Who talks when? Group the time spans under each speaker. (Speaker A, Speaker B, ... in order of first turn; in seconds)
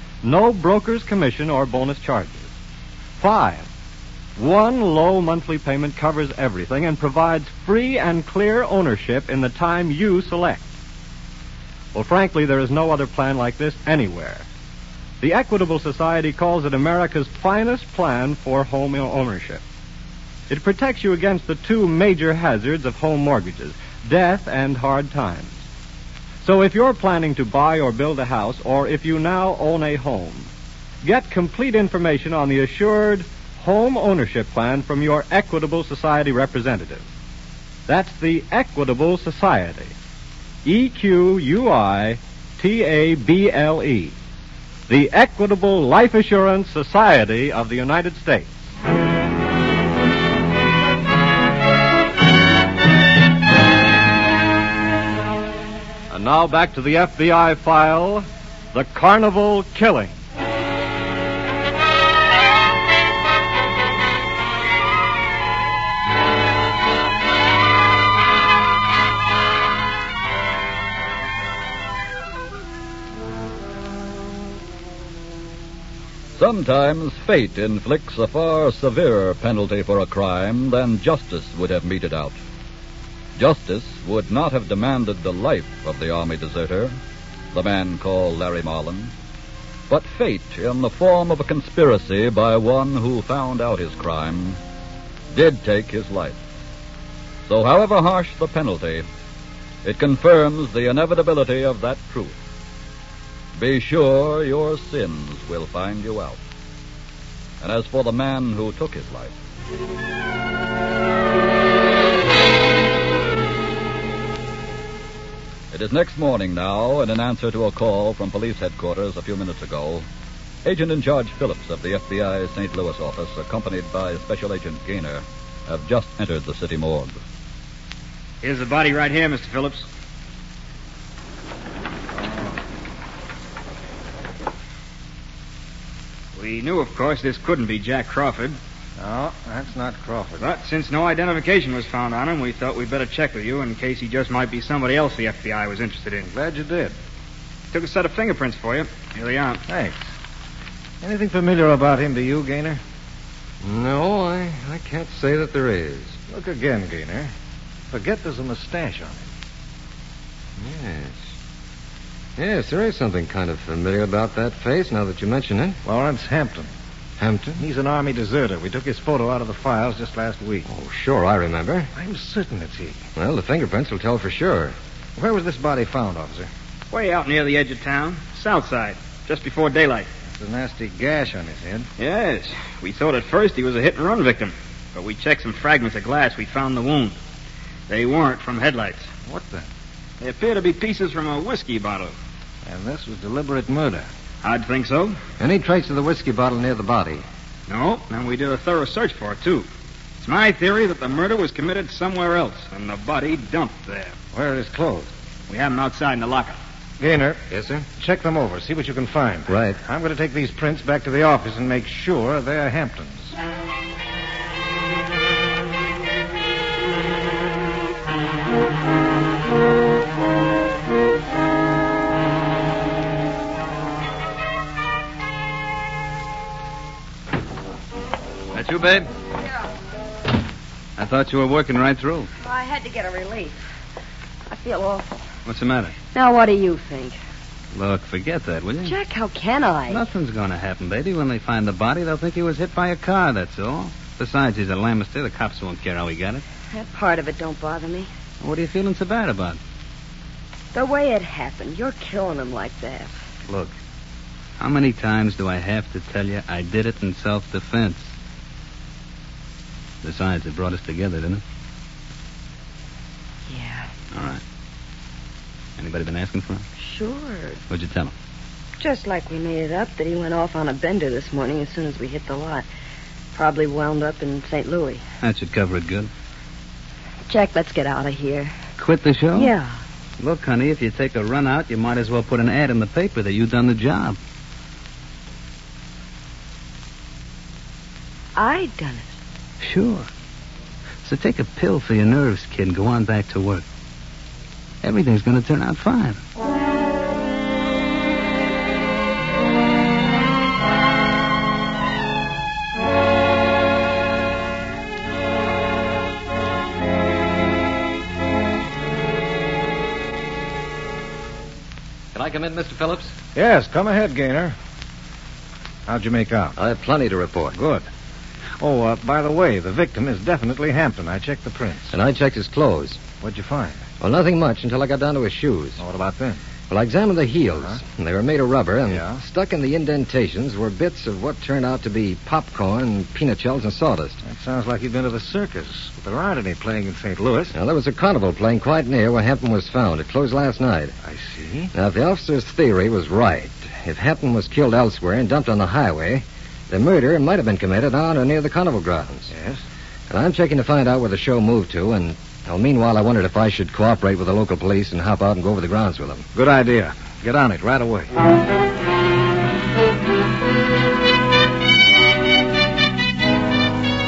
Speaker A: 0.2-2.5, 3.2-3.7, 4.4-10.7, 11.9-14.5, 15.2-19.6, 20.5-25.6, 26.4-30.5, 31.0-37.1, 37.9-40.0, 40.6-44.1, 44.9-48.5, 56.1-60.2
Speaker B: 76.4-82.4, 83.4-87.0, 87.5-89.1, 89.9-94.6, 95.3-96.4, 97.5-99.1, 99.8-102.4, 103.6-106.4, 107.6-109.3, 115.7-120.1, 120.7-127.2
Speaker C: 128.4-129.9, 136.3-138.6, 140.4-146.3, 147.7-149.6, 176.9-180.1, 182.0-187.2, 187.9-189.1, 190.2-192.2, 194.4-195.2, 197.7-199.7, 200.2-204.2, 205.5-206.6
Speaker D: 132.2-132.6, 139.0-140.5, 146.3-146.9, 149.7-150.1, 151.0-152.8, 156.3-157.3, 157.9-159.3, 165.8-166.7, 167.6-170.7, 171.9-173.0, 175.2-176.5, 180.3-181.9, 189.2-189.7, 192.7-194.1, 204.3-205.1, 207.0-213.3, 313.4-314.6, 315.9-316.6, 317.5-317.9, 318.6-321.9, 323.2-323.8, 325.8-326.4, 328.9-329.2, 334.2-337.5, 341.0-341.7, 349.3-349.6, 356.3-358.1
Speaker E: 153.6-156.2, 160.6-161.2, 162.4-165.8, 167.2-167.6, 170.7-171.9, 173.2-174.8, 195.4-197.2, 207.5-207.9, 209.5-209.8, 312.1-313.1, 316.6-317.6, 321.9-323.0, 324.0-325.8, 326.7-334.2, 337.5-340.9, 341.7-349.3, 350.1-356.3
Speaker F: 228.5-229.1, 231.0-232.3, 235.5-235.9, 237.7-238.9, 239.9-246.4, 248.4-249.6, 253.5-253.7, 254.6-258.1, 260.0-261.4, 264.1-264.4, 265.8-266.6, 267.7-268.1, 275.2-276.1, 278.8-279.5, 280.2-284.2, 289.6-290.1, 291.0-293.6, 294.8-296.2
Speaker G: 232.4-233.6, 234.5-235.1, 236.1-237.2, 238.8-240.0, 246.7-248.1, 250.7-253.2, 263.5-263.9, 266.8-267.6, 268.8-272.7, 273.4-275.0, 277.3-278.5, 279.3-279.8, 288.4-289.1